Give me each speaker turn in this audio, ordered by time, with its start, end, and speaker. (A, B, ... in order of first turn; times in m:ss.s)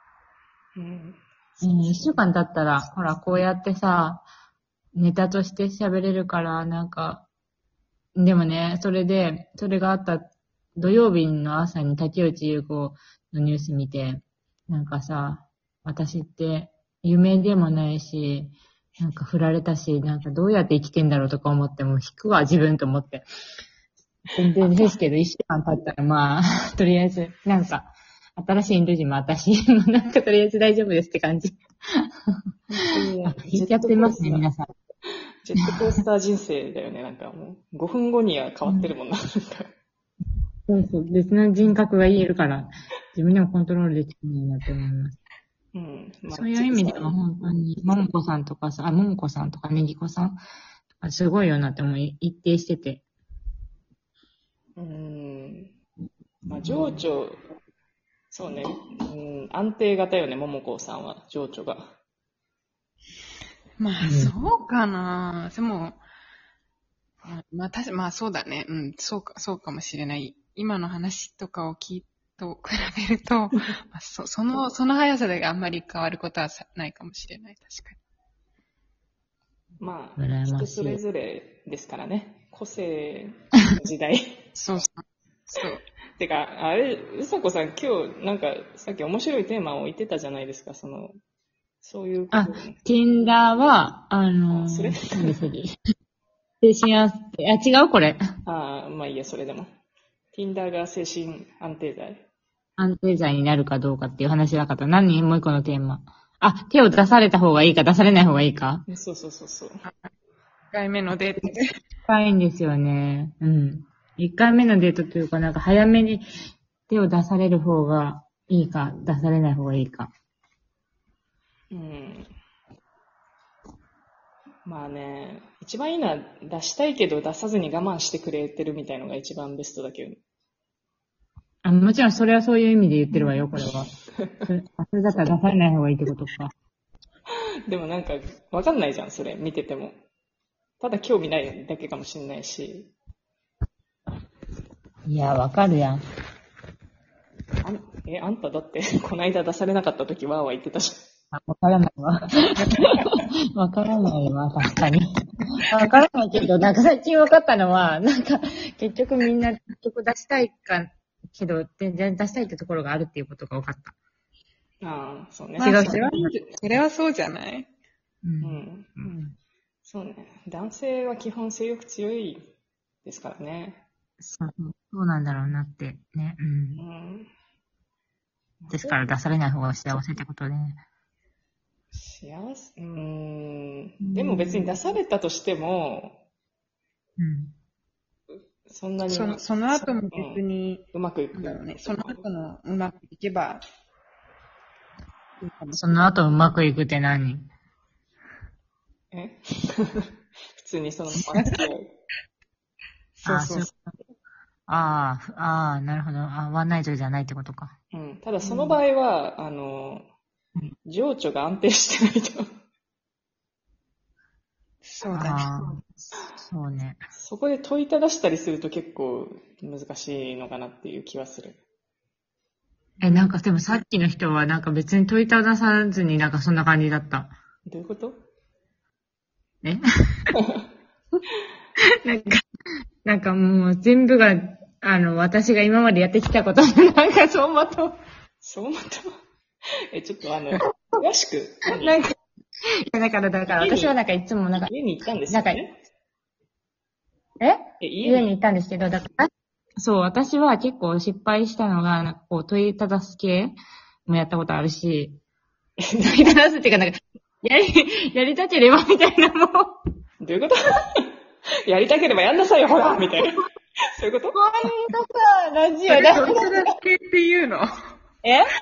0:00.8-0:02.2 A
0:01.6-0:04.3 B
0:05.0-0:07.3 B
0:08.2-0:23.3 B
0:24.4-0:32.1 B
0:32.8-0:34.5 A
0:32.8-0:33.2 C
0:33.2-0:34.7 B
0:35.4-0:39.7 A
0:38.6-0:38.9 B
0:40.7-0:45.2 B
0:45.7-0:47.1 A
0:46.3-0:50.4 B
0:51.0-0:53.0 B
0:54.8-0:55.7 A
0:56.5-0:57.4 A
0:56.7-0:57.0 B
0:58.3-1:01.9 A
1:03.8-1:06.0 C
1:04.0-1:04.3 B
1:07.2-1:18.0 C
1:19.8-1:24.4 A
1:20.2-1:21.0 B
1:24.6-1:25.8 C
1:26.2-1:31.2 A
1:31.8-1:32.8 A
1:32.3-1:35.8 B
1:34.5-1:35.3 A
1:36.6-1:38.2 B
1:38.4-1:39.7 A
1:40.3-1:42.2 A
1:42.8-1:48.9 B
1:48.9-1:49.8 A
1:49.8-1:50.1 C
1:50.7-1:51.8 C
1:52.1-1:56.2 B
1:56.9-2:00.1 B
2:01.7-2:02.3 A
2:04.6-2:10.2 A
2:11.6-2:13.9 B
2:14.2-2:14.5 A
2:14.5-2:16.5 B
2:17.7-2:20.0 A
2:20.8-2:22.9 A
2:25.1-2:26.0 B
2:27.6-2:31.0 A
2:31.3-2:35.0 B
2:35.7-2:44.0 B
2:44.8-2:45.8 A
2:45.6-2:47.7 C
2:45.6-2:46.3 B
2:48.2-2:49.4 B
2:48.4-2:49.1 A
2:49.8-2:52.5 A
2:53.0-2:53.8 A
2:54.2-2:56.8 B
2:56.8-2:57.3 A
2:58.6-2:59.1 A
2:58.7-3:00.8 B
3:01.9-3:06.2 A
3:04.0-3:04.8 B
3:07.2-3:07.5 B
3:08.7-3:10.4 A
3:09.1-3:13.6 C
3:10.9-3:12.2 A
3:15.4-3:15.8 C
3:15.8-3:17.5 B
3:19.1-3:21.9 A
3:21.4-3:21.6 C
3:23.2-3:23.7 C
3:23.2-3:23.7 B
3:24.7-3:27.8 B
3:27.9-3:30.1 A
3:30.8-3:32.4 A
3:34.8-3:35.7 C
3:35.1-3:37.0 B
3:37.2-3:41.6 A
3:43.0-3:47.3 B
3:43.0-3:43.3 C
3:47.7-3:48.2 A
3:49.6-3:50.3 B
3:52.0-3:52.4 B
3:53.0-3:58.0 B
3:58.4-3:59.2 A
3:59.9-4:02.0 A
4:01.8-4:02.1 B
4:02.9-4:04.7 B
4:03.5-4:04.0 A
4:04.6-4:05.8 A
4:05.3-4:05.6 B
4:07.4-4:09.3 B
4:07.8-4:08.3 A
4:09.8-4:15.2 B
4:15.8-4:16.4 A
4:16.0-4:19.8 B
4:20.2-4:21.0 A
4:21.7-4:23.4 A
4:24.0-4:24.4 A
4:24.3-4:26.7 B
4:25.9-4:27.7 C